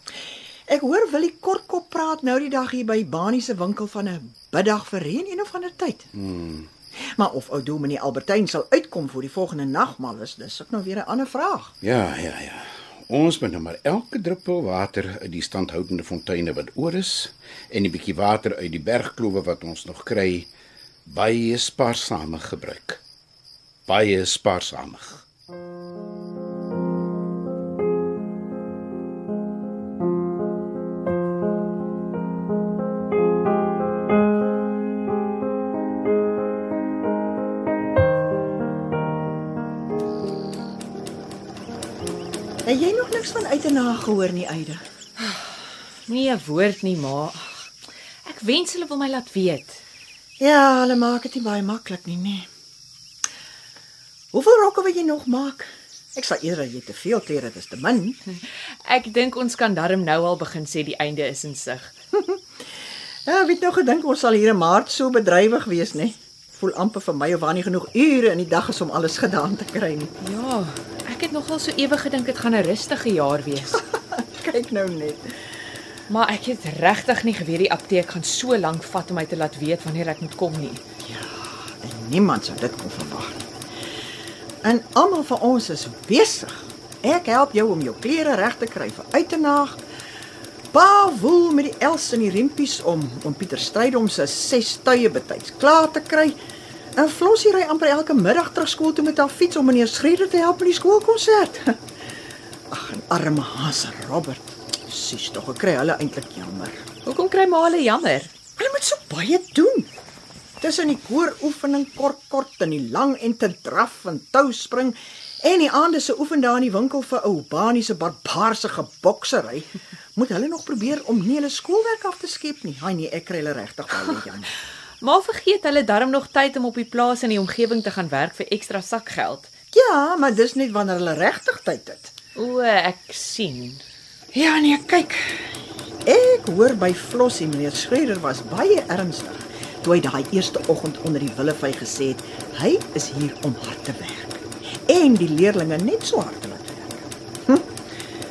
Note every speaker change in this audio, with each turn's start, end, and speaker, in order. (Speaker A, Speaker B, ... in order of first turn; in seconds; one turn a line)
Speaker A: 0.7-6.1
Speaker B: 6.1-6.7
Speaker A: 7.1-11.7
Speaker B: 11.8-20.5
Speaker B: 21.1-23.0
Speaker B: 23.9-25.2
Speaker A: 42.6-44.8
Speaker C: 46.1-47.7
Speaker C: 48.3-49.8
Speaker A: 50.4-52.5
Speaker A: 54.3-58.2
Speaker C: 58.9-61.9
Speaker A: 62.2-62.4
Speaker A: 63.3-70.1
Speaker C: 70.2-73.8
Speaker A: 73.9-75.3
Speaker C: 76.1-80.8
Speaker A: 81.0-83.5
Speaker A: 84.6-89.8
Speaker A: 90.7-96.4
Speaker A: 97.0-101.8
Speaker A: 102.7-106.8
Speaker C: 107.0-108.3
Speaker A: 108.6-109.9
Speaker A: 110.6-124.5
Speaker C: 125.0-129.5
Speaker A: 129.7-132.1
Speaker C: 132.4-133.8
Speaker A: 134.3-135.5
Speaker A: 136.1-147.7